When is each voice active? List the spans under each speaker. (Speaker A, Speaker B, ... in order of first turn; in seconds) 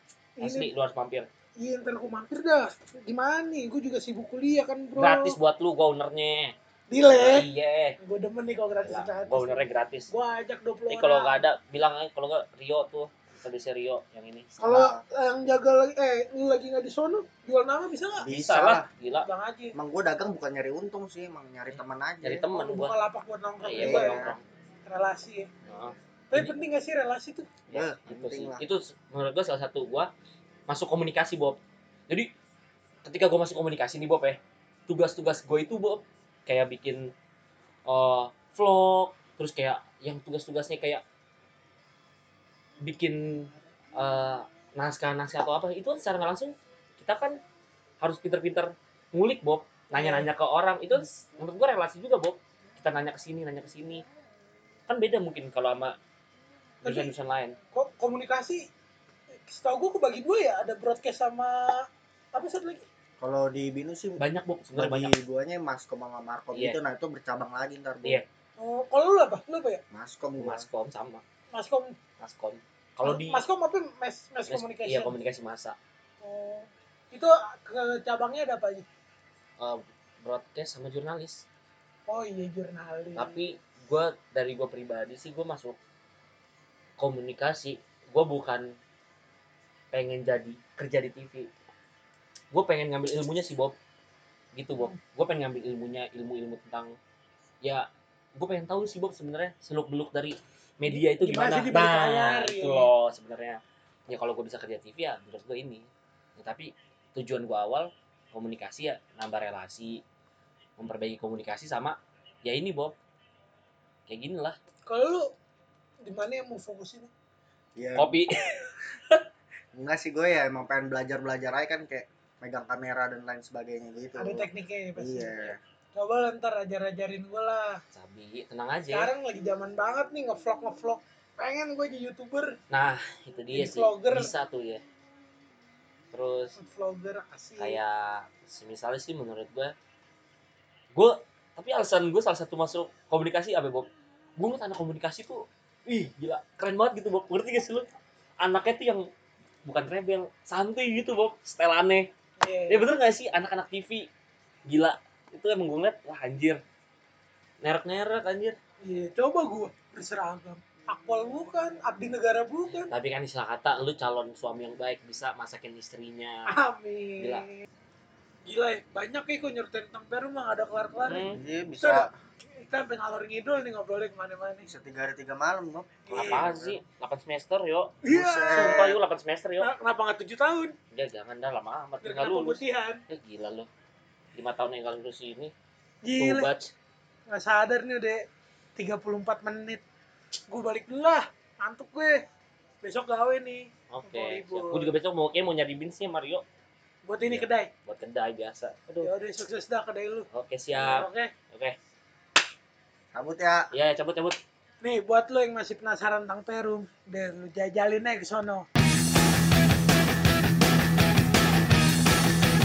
Speaker A: 0.4-0.7, 1.6-5.4, 6.9-7.5, 8.0-11.4, 14.6-18.3, 19.2-19.7, 22.5-24.2, 24.9-25.5, 26.3-27.5, 49.9-50.3, 56.8-57.1, 57.7-58.7, 59.5-62.8, 68.6-69.8, 71.5-72.0, 73.0-75.1, 76.2-78.8, 82.1-83.4, 100.9-102.9, 114.9-115.3, 116.0-117.1, 124.2-127.8, 128.9-132.6, 133.5-134.3, 136.6-137.8, 152.4-152.8, 158.8-162.9, 166.5-167.6, 168.4-171.2, 171.8-174.7, 176.1-176.4, 178.0-178.9, 179.6-180.7, 182.0-183.0, 186.0-186.5, 187.3-188.2, 188.8-189.8, 190.5-192.2, 192.8-194.9, 197.1-197.7, 199.0-201.3, 204.8-208.7
Speaker B: 0.4-1.3, 5.0-6.5, 7.1-8.0, 8.8-10.1, 10.9-14.5, 18.3-19.3, 22.2-22.9, 23.6-24.4, 25.7-26.5, 27.7-30.1, 30.7-31.6, 33.0-37.1, 37.9-41.0, 42.8-47.4, 48.0-54.0, 54.9-56.0, 56.8-57.5, 64.2-65.1, 66.5-66.8, 70.4-71.2, 72.2-73.4, 74.5-75.8, 79.6-81.4, 83.2-85.8, 87.0-88.7, 89.9-91.5, 92.5-93.7, 94.5-96.9, 97.6-110.0, 110.8-112.9, 114.1-114.5, 118.0-118.5, 127.9-129.1, 132.7-134.8, 136.1-136.6, 137.6-139.7, 140.9-147.8, 148.4-149.0, 149.6-152.1, 152.7-154.1, 154.7-156.6, 157.6-158.6, 162.9-166.5, 167.2-167.4, 171.1-171.4, 176.1-178.0, 178.5-179.7, 180.9-183.7, 184.3-185.5, 186.2-186.7, 193.9-196.4, 197.2-199.1, 200.3-201.7, 203.7-204.4
Speaker C: 14.6-15.0, 18.2-18.9, 19.7-22.5, 23.8-24.3, 27.7-28.6, 63.2-64.2, 64.7-68.2, 69.9-70.7, 117.8-118.2, 119.7-125.6, 171.3-172.1, 174.6-176.8, 178.1-178.9, 203.1-203.7